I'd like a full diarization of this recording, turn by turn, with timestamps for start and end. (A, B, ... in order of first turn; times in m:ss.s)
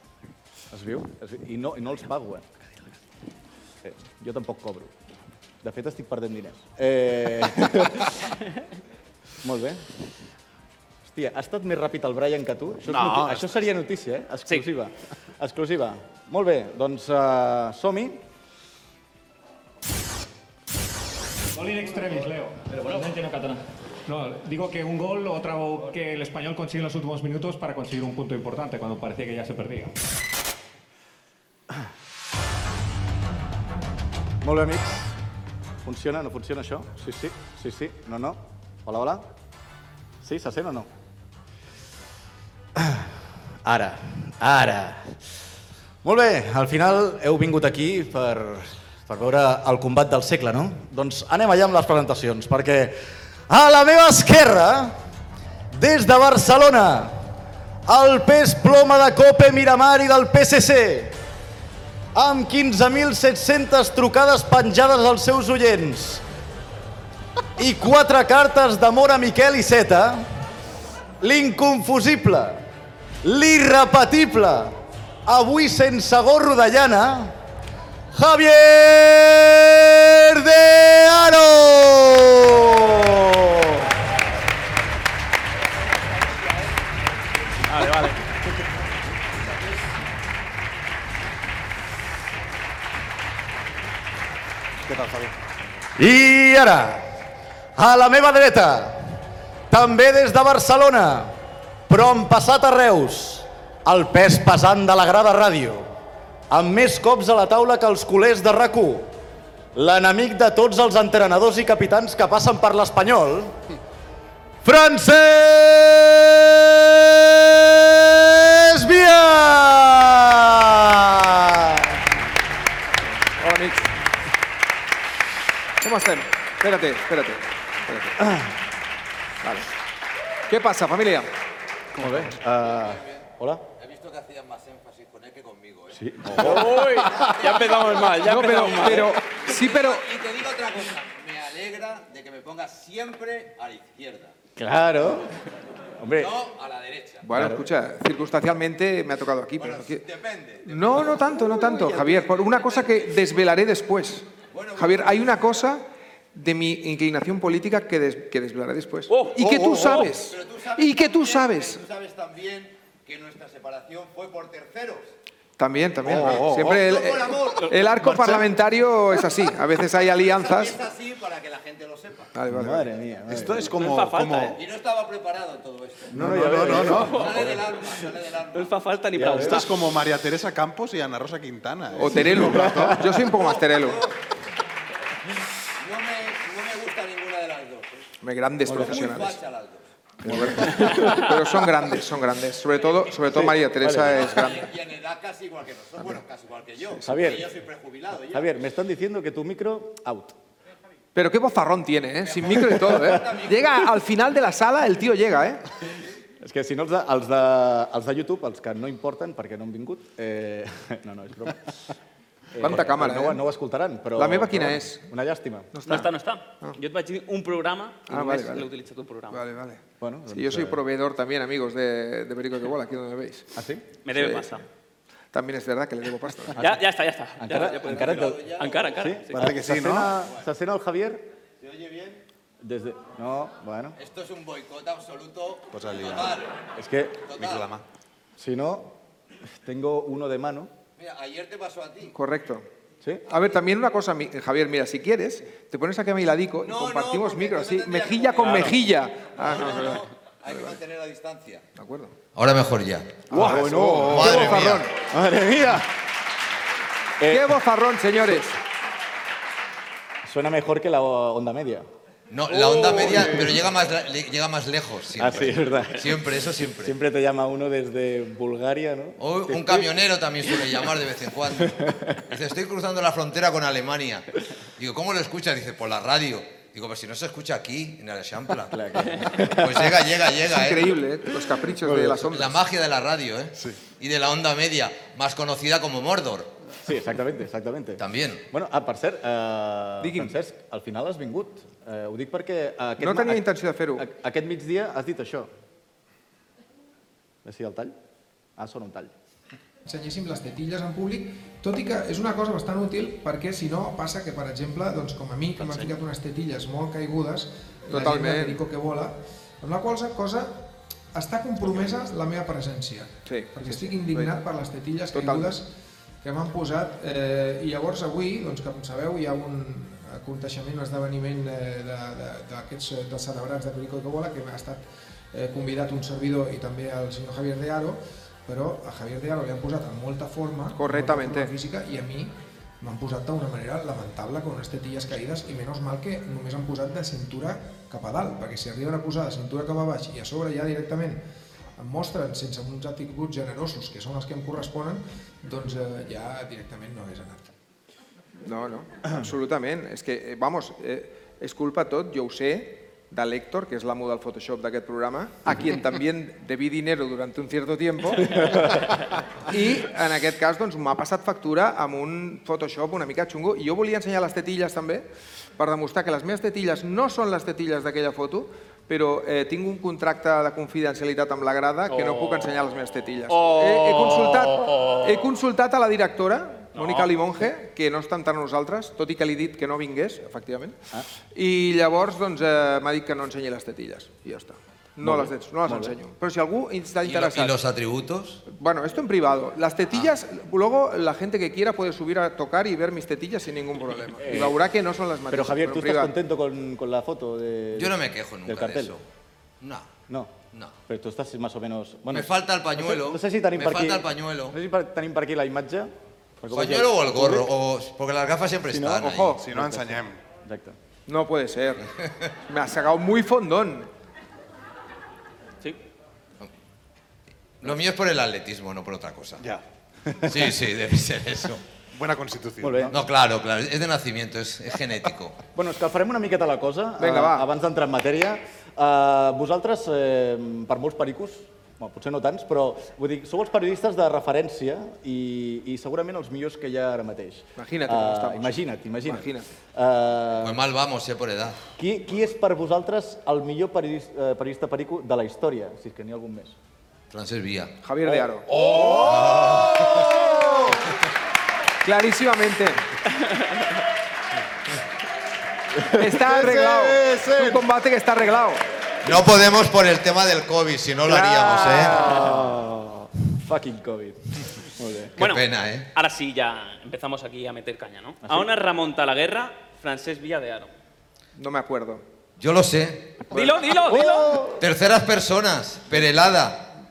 0:00.7-0:02.5 A
0:03.8-0:04.9 A
0:05.6-0:08.2 A
0:09.4-0:09.8 A
0:11.0-0:18.2 A
0:12.8-0:13.6 B
0:21.5-0:29.9 C
0:34.4-0:35.2 A
0:35.8-0:39.2 A
0:40.2-0:40.9 A
0:42.7-0:45.2 A
0:46.0-0:55.0 A
0:55.7-0:57.2 A
0:57.8-1:01.2 A
1:02.1-1:06.2 A
1:07.6-1:10.3 A
1:11.2-1:12.6 A
1:13.2-1:17.4 A
1:18.1-1:23.9 A
1:27.7-1:28.2 D
1:34.8-1:35.4 B
1:36.0-1:37.1 A
1:37.8-1:39.2 A
1:39.7-1:41.3 A
1:41.9-1:45.9 A
1:46.5-1:49.1 A
1:49.7-1:53.5 A
1:54.6-2:02.0 A
2:03.4-2:03.9 E
2:05.8-2:08.1 E
2:08.2-2:08.6 A
2:09.4-2:09.7 E
2:10.5-2:11.3 E
2:12.0-2:13.6 A
2:12.6-2:13.2 F
2:13.8-2:24.3 F
2:15.9-2:16.7 A
2:16.3-2:16.5 B
2:16.4-2:19.2 D
2:18.2-2:20.0 E
2:24.6-2:25.3 A
2:26.0-2:26.3 A
2:26.2-2:27.3 F
2:27.2-2:30.0 E
2:27.3-2:27.6 A
2:29.6-2:33.1 F
2:30.6-2:41.8 E
2:34.5-2:35.6 F
2:39.1-2:40.1 D
2:39.4-2:39.8 B
2:39.9-2:45.1 F
2:45.6-2:50.8 E
2:46.0-2:46.8 B
2:46.1-2:47.8 F
2:48.1-2:48.4 B
2:49.9-2:52.3 F
2:52.3-2:52.9 E
2:52.5-2:53.7 A
2:53.3-2:54.6 B
2:53.7-2:54.6 D
2:54.6-2:58.7 F
2:56.1-2:57.4 A
2:56.1-2:57.4 B
2:56.8-2:57.4 D
2:58.5-2:59.7 D
2:59.1-2:59.6 A
2:59.4-3:02.9 B
3:02.0-3:04.0 E
3:02.2-3:03.1 A
3:03.2-3:04.1 F
3:05.8-3:08.0 F
3:08.2-3:09.4 E
3:08.6-3:09.0 A
3:08.7-3:09.8 F
3:10.2-3:11.4 A
3:10.2-3:14.6 E
3:13.2-3:14.4 A
3:14.0-3:18.5 F
3:17.0-3:17.5 A
3:18.3-3:20.4 A
3:21.1-3:25.6 E
3:22.2-3:23.7 F
3:22.6-3:23.2 A
3:26.4-3:31.7 A
3:32.5-3:35.7 A
3:32.6-3:33.4 E
3:34.1-3:35.0 E
3:35.7-3:36.1 E
3:35.8-3:39.4 D
3:38.1-3:38.7 E
3:39.3-3:43.5 E
3:40.0-3:40.8 A
3:43.5-3:43.8 A
3:44.0-3:44.6 D
3:44.1-3:44.6 E
3:45.3-3:46.6 E
3:46.5-3:46.8 A
3:46.6-3:49.5 D
3:47.4-3:51.2 A
3:47.6-3:48.8 F
3:49.3-3:50.2 B
3:51.6-3:52.2 F
3:52.6-3:54.0 A
3:54.0-3:56.5 F
3:55.7-3:56.4 B
3:56.8-3:57.2 A
3:57.3-3:57.7 F
3:57.4-3:57.8 B
3:58.4-3:58.9 A
3:59.6-4:00.7 A
4:01.0-4:02.1 F
4:02.1-4:02.6 E
4:03.3-4:10.7 E
4:06.6-4:11.6 F
4:11.8-4:12.1 E
4:12.3-4:14.8 G
4:13.3-4:15.9 A
4:13.3-4:14.9 E
4:13.4-4:14.6 B
4:17.2-4:17.6 A
4:17.3-4:18.6 E
4:20.2-4:21.8 A
4:22.3-4:26.9 G
4:22.8-4:23.5 A
4:25.2-4:29.9 A
4:29.2-4:31.8 G
4:31.5-4:32.2 A
4:32.3-4:34.2 G
4:34.8-4:40.9 G
4:38.7-4:40.1 A
4:40.5-4:42.6 E
4:41.8-4:42.2 A
4:42.3-4:46.5 G
4:46.8-4:55.5 A
4:48.0-4:48.4 G
4:50.0-4:50.3 E
4:53.0-4:54.0 E
4:57.4-4:57.9 A
4:58.6-4:59.1 A
4:59.8-5:10.5 H
5:05.6-5:05.9 B
5:07.9-5:08.6 E
5:11.1-5:15.6 H
5:13.2-5:14.4 E
5:15.1-5:15.5 E
5:16.2-5:24.8 H
5:25.3-5:41.2 H
5:30.7-5:31.5 E
5:41.8-5:47.5 H
5:48.4-5:58.8 E
5:58.3-5:58.7 A
5:59.5-6:20.8 E
6:11.9-6:12.5 D
6:13.3-6:15.3 D
6:16.7-6:17.1 D
6:21.3-6:27.6 E
6:25.0-6:25.9 A
6:27.0-6:28.4 G
6:28.5-6:36.1 E
6:34.2-6:34.6 A
6:35.3-6:38.9 A
6:37.7-6:39.0 G
6:39.6-6:39.9 G
6:40.1-6:40.3 A
6:40.9-6:47.5 A
6:42.1-6:44.5 G
6:46.5-6:49.4 G
6:48.7-6:50.8 A
6:49.1-6:50.2 B
6:51.1-6:51.8 E
6:52.5-6:53.9 E
6:57.6-6:59.4 G
6:59.4-7:00.5 B
7:00.2-7:01.6 G
7:01.9-7:02.9 B
7:02.6-7:03.0 A
7:02.9-7:05.4 G
7:05.6-7:20.6 A
7:07.0-7:07.4 E
7:17.6-7:19.5 E
7:20.4-7:21.6 G
7:21.8-7:26.6 A
7:27.1-7:27.7 G
7:27.8-7:28.5 E
7:28.0-7:30.8 A
7:28.5-7:29.2 B
7:29.0-7:30.1 G
7:30.1-7:30.5 B
7:31.8-7:32.8 E
7:35.7-7:37.5 A
7:36.0-7:38.6 E
7:36.4-7:37.5 B
7:39.0-7:42.3 G
7:41.1-7:42.0 E
7:41.4-7:45.1 A
7:45.2-7:50.7 D
7:45.2-7:45.9 G
7:48.2-7:48.5 A
7:51.4-7:52.0 E
7:52.4-7:53.2 G
7:53.3-7:54.3 D
7:53.4-7:54.6 A
7:54.6-7:56.6 G